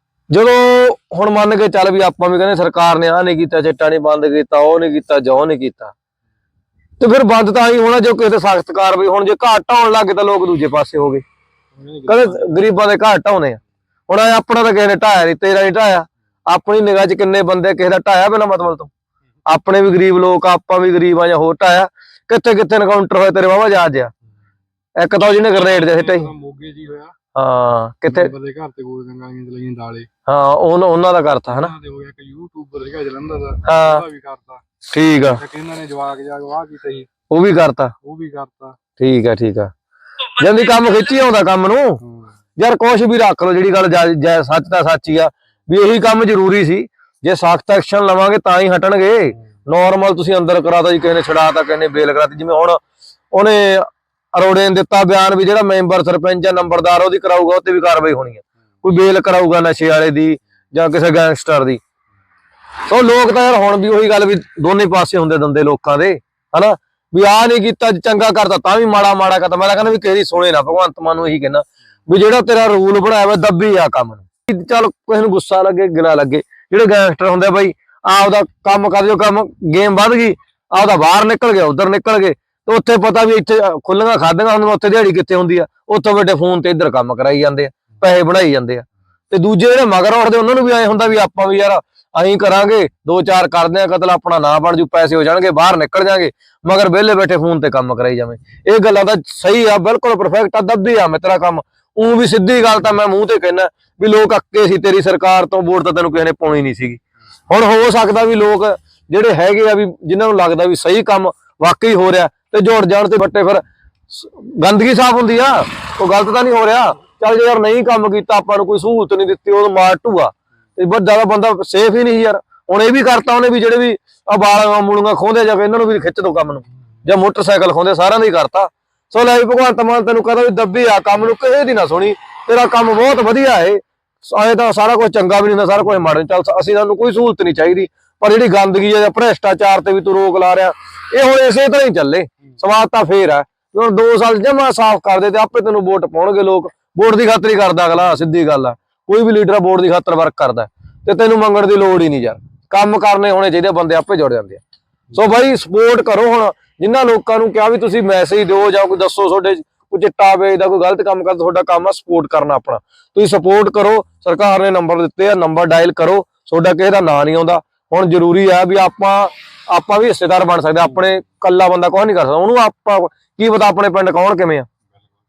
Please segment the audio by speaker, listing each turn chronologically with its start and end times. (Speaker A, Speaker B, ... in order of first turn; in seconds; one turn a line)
Speaker A: 0.3-5.9
Speaker A: 7.0-11.2
Speaker B: 11.8-12.5
Speaker A: 12.1-18.9
Speaker A: 19.5-24.1
Speaker A: 25.0-26.3
Speaker B: 25.4-27.1
Speaker A: 27.3-28.3
Speaker B: 28.1-30.1
Speaker A: 30.3-31.7
Speaker B: 31.5-34.6
Speaker A: 33.6-34.0
Speaker A: 34.9-35.4
Speaker B: 35.2-37.1
Speaker A: 37.3-37.9
Speaker B: 38.0-38.8
Speaker A: 39.0-39.7
Speaker A: 40.3-42.0
Speaker A: 42.6-52.8
Speaker A: 53.3-61.8
Speaker A: 62.9-154.6
Speaker A: 155.1-174.7